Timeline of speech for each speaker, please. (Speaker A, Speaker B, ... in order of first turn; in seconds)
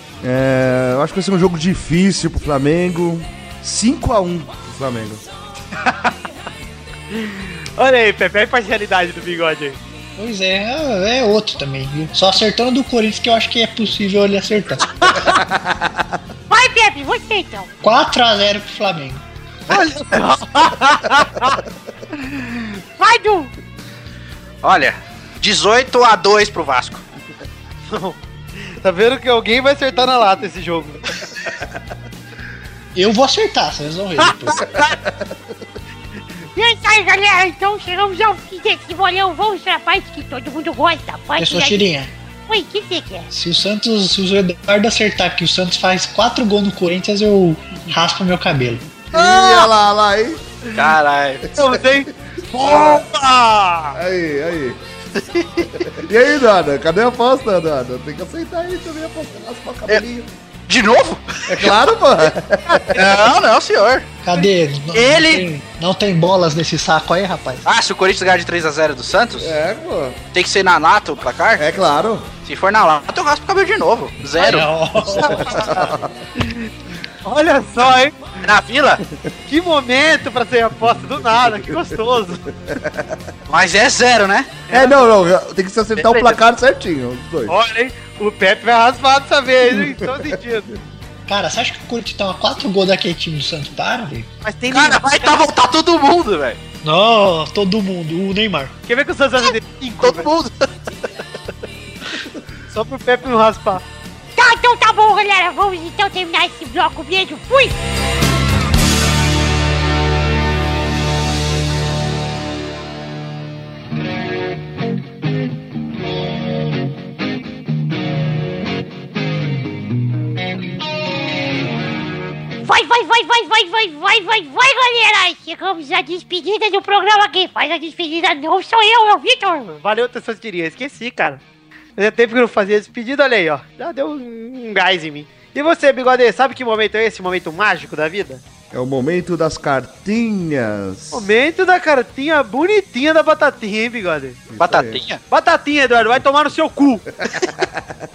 Speaker A: 0.2-5.2, 15.3-16.1, 34.8-35.5, 49.0-50.4, 51.5-53.0, 53.9-54.8, 55.8-60.3, 61.5-63.2, 69.4-70.2, 71.6-72.3, 75.2-76.3, 81.4-83.2, 84.7-87.6, 89.7-90.7, 138.7-141.3, 144.5-145.0, 147.2-147.9
Speaker B: 5.8-6.1, 7.1-9.8, 19.7-21.6, 27.8-31.0, 34.2-35.0, 51.5-54.0, 75.2-76.7, 77.2-78.3, 79.5-82.4, 84.7-85.0, 87.5-90.7, 94.4-95.4, 98.8-100.3, 102.7-103.8, 129.8-131.4, 131.9-138.4, 141.1-144.4, 145.3-147.0
Speaker C: 10.2-15.0, 17.8-19.2, 32.9-34.7, 41.4-42.1, 43.3-48.8, 64.2-67.6, 74.4-75.6, 91.3-94.3, 96.8-98.7
Speaker D: 16.5-17.7, 23.0-23.5, 36.5-41.9, 42.5-43.3, 104.3-107.8, 122.6-129.8
Speaker E: 24.6-27.0, 49.1-49.7, 50.7-51.5, 52.7-53.0, 55.1-55.9, 60.7-61.8, 62.9-65.4, 67.7-69.5, 70.3-71.7, 72.4-74.7, 78.4-79.0, 83.5-84.6, 86.0-86.4, 94.7-96.6, 99.4-100.7, 144.6-145.2